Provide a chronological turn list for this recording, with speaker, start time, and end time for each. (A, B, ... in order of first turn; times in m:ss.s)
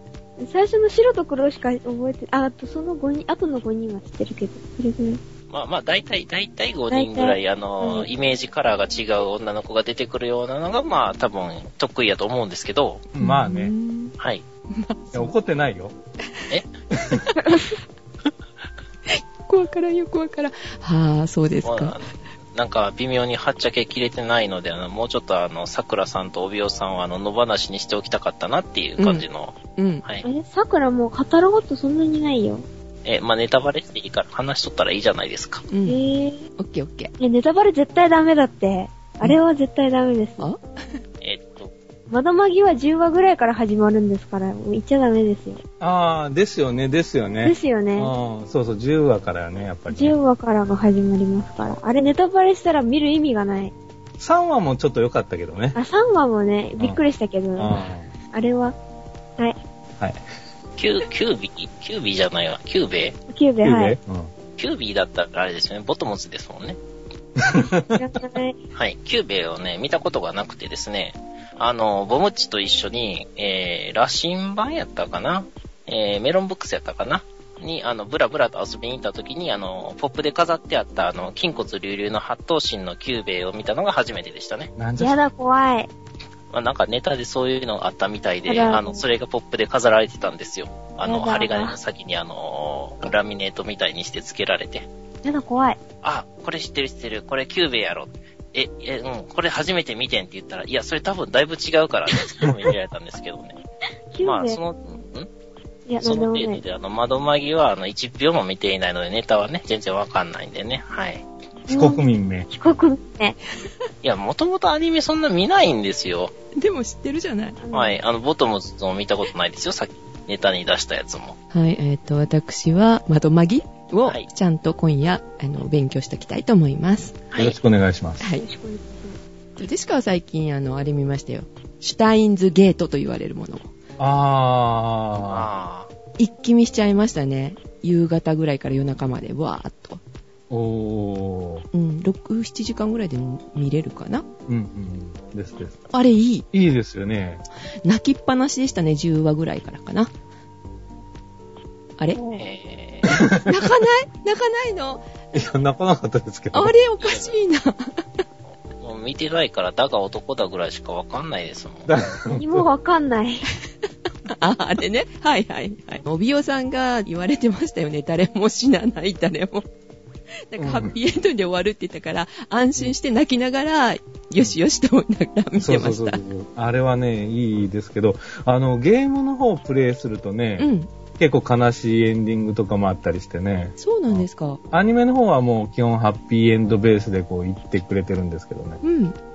0:00.4-0:05.2 A
0:05.5-0:13.1 B
0:06.9-0:08.0 A
0:13.1-0:13.7 C
0:13.2-0:14.1 D
0:14.7-0:15.3 D
0:15.1-0:15.9 C
0:17.0-0:17.2 C
0:17.4-0:17.8 A
0:19.1-0:22.0 D
0:21.6-0:30.2 B
0:29.0-0:29.2 D
0:29.8-0:30.0 D
0:30.2-0:32.6 A
0:33.0-0:35.6 B
0:35.7-0:36.0 D
0:35.8-0:36.4 A
0:36.6-0:37.1 D
0:37.2-0:40.4 A
0:41.2-0:41.7 B
0:42.1-0:45.6 A
0:45.8-0:50.2 C
0:47.4-0:48.1 A
0:49.9-0:53.7 A
0:54.2-0:55.8 C
0:55.7-0:57.8 A
0:57.6-0:58.1 C
0:58.3-0:58.8 A
1:00.8-1:03.2 B
1:03.3-1:04.0 A
1:03.6-1:04.3 C
1:04.6-1:06.8 B
1:07.4-1:08.0 C
1:07.9-1:08.6 A
1:08.7-1:24.7 B
1:24.8-1:25.2 C
1:25.0-1:25.9 A
1:26.5-1:34.9 B
1:28.4-1:29.0 A
1:31.0-1:31.8 A
1:35.2-1:35.8 A
1:36.0-1:43.6 B
1:44.1-1:44.6 A
1:44.2-1:45.3 B
1:45.9-1:46.6 A
1:46.0-1:51.2 B
1:51.7-1:52.5 C
1:51.7-1:53.4 A
1:54.0-1:56.3 B
1:56.5-1:57.6 D
1:57.6-1:58.0 A
1:57.7-2:01.4 B
2:01.5-2:07.2 D
2:07.3-2:07.6 B
2:07.4-2:08.3 C
2:08.2-2:08.4 D
2:08.4-2:09.2 A
2:09.6-2:13.7 D
2:14.0-2:15.5 C
2:15.2-2:15.9 B
2:16.2-2:20.0 D
2:20.5-2:21.6 C
2:21.7-2:24.2 D
2:24.5-2:25.8 C
2:25.9-2:26.4 D
2:26.5-2:27.4 C
2:27.8-2:30.1 D
2:32.1-2:32.4 A
2:32.3-2:33.1 B
2:33.1-2:33.7 C
2:33.4-2:35.0 D
2:35.3-2:36.7 C
2:36.5-2:38.2 D
2:37.0-2:37.4 B
2:38.4-2:41.9 B
2:41.9-2:42.6 C
2:42.4-2:43.4 A
2:44.4-2:49.6 D
2:50.5-2:56.2 D
2:50.6-2:50.9 C
2:55.6-3:08.8 C
3:00.6-3:00.9 D
3:03.8-3:04.6 D
3:08.8-3:09.2 D